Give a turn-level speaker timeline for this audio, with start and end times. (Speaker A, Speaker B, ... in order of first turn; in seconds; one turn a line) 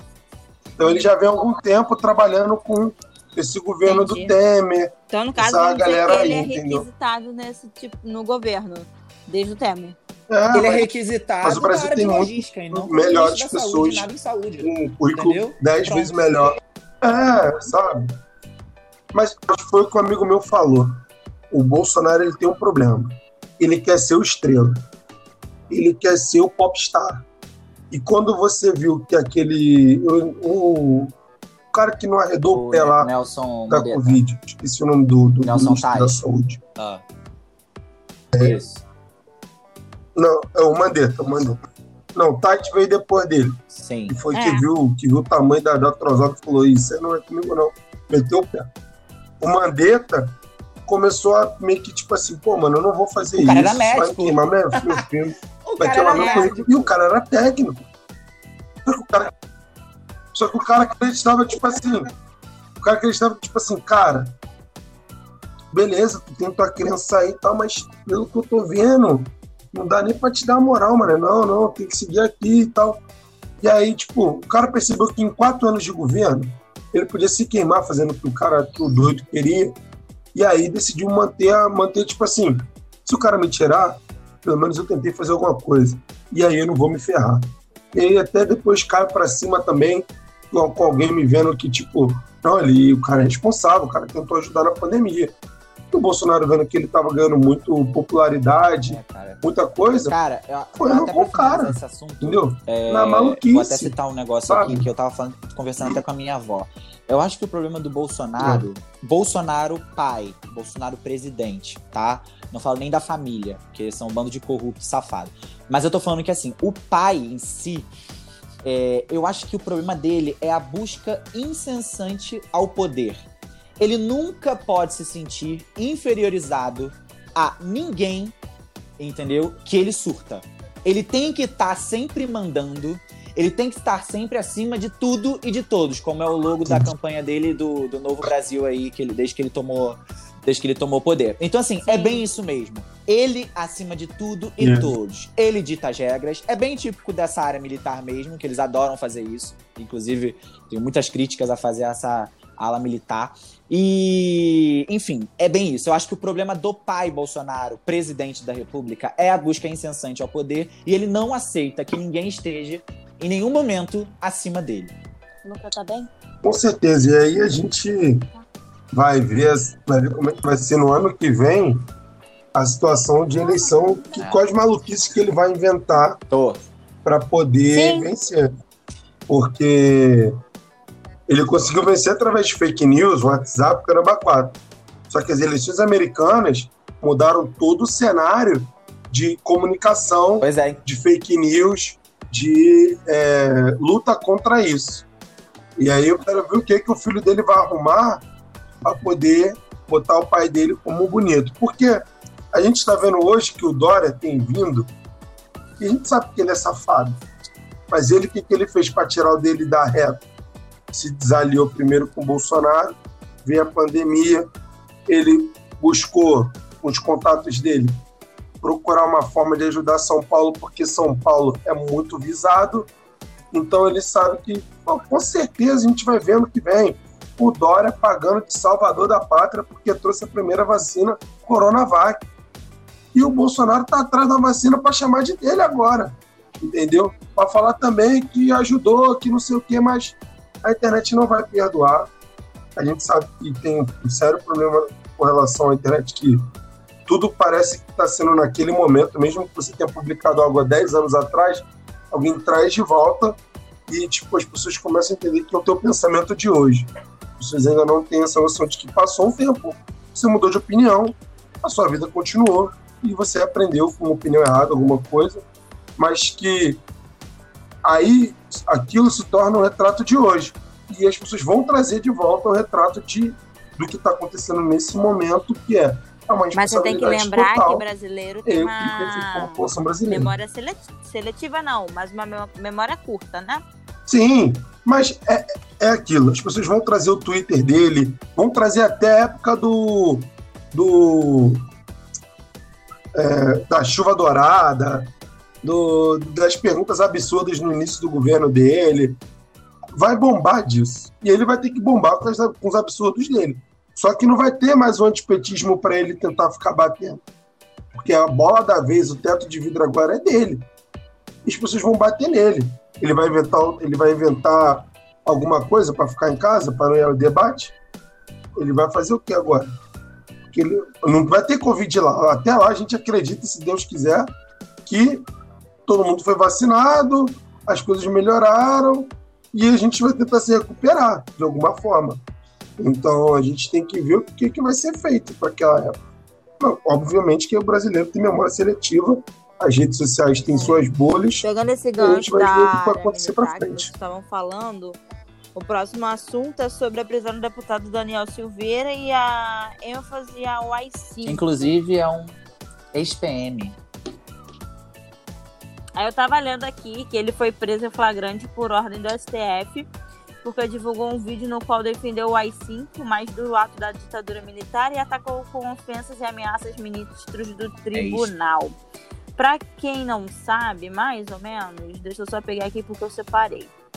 Speaker A: 0.8-6.9
Speaker B: 3.8-4.3
Speaker B: 5.1-9.9
Speaker A: 10.3-10.9
Speaker C: 10.5-16.6
Speaker A: 11.4-18.1
Speaker A: 19.1-24.8
Speaker A: 25.7-27.2
Speaker A: 27.9-31.1
Speaker A: 31.7-33.1
Speaker C: 32.5-34.2
Speaker A: 33.7-36.6
Speaker C: 35.4-36.2
Speaker C: 36.8-37.0
Speaker C: 38.4-38.8
Speaker A: 40.1-41.6
Speaker A: 42.1-48.7
Speaker C: 43.7-44.2
Speaker B: 44.3-44.6
Speaker A: 49.4-50.3
Speaker A: 50.9-57.8
Speaker C: 53.3-55.0
Speaker C: 55.6-56.9
Speaker B: 56.1-56.5
Speaker A: 58.8-59.3
Speaker A: 60.3-62.1
Speaker A: 62.8-64.3
Speaker A: 65.7-73.0
Speaker A: 73.6-79.8
Speaker A: 80.3-95.3
Speaker A: 95.9-100.2
Speaker C: 98.9-99.4
Speaker C: 100.0-117.9
Speaker A: 100.8-103.9
Speaker A: 104.5-104.9
Speaker A: 108.4-108.7
Speaker C: 118.6-123.2
Speaker C: 123.8-128.3
Speaker C: 129.0-164.9
Speaker A: 136.7-136.9
Speaker B: 141.8-142.2
Speaker A: 144.6-144.9
Speaker B: 165.4-166.1
Speaker A: 166.4-168.3
Speaker A: 168.9-171.9
Speaker A: 172.5-176.2
Speaker B: 173.6-173.9
Speaker C: 174.2-174.4
Speaker C: 176.3-176.6
Speaker A: 177.0-178.5
Speaker B: 177.7-178.1
Speaker A: 179.3-180.4
Speaker A: 181.3-195.1
Speaker C: 190.4-190.8
Speaker A: 195.8-198.2
Speaker A: 198.8-204.9
Speaker A: 205.8-207.2
Speaker A: 207.9-210.2
Speaker A: 210.9-214.5
Speaker A: 215.1-218.0
Speaker A: 218.6-222.9
Speaker A: 223.5-232.2
Speaker A: 233.1-242.1
Speaker A: 242.8-246.4
Speaker A: 247.1-265.4
Speaker A: 266.0-266.8
Speaker A: 267.8-277.8
Speaker B: 276.5-283.6
Speaker A: 278.4-280.3
Speaker A: 284.1-291.6
Speaker A: 293.1-295.1
Speaker A: 295.6-299.2
Speaker A: 299.9-307.2
Speaker A: 307.9-310.6
Speaker A: 311.4-317.7
Speaker A: 318.5-319.7
Speaker A: 320.5-324.3
Speaker A: 324.9-325.3
Speaker A: 325.9-332.2
Speaker A: 332.8-335.9
Speaker A: 336.6-341.4
Speaker B: 341.4-345.0
Speaker A: 342.0-343.9
Speaker B: 345.5-351.6
Speaker C: 351.2-352.4
Speaker C: 352.9-353.8
Speaker B: 355.9-359.9
Speaker B: 360.4-368.8
Speaker C: 367.9-368.3
Speaker B: 369.4-373.7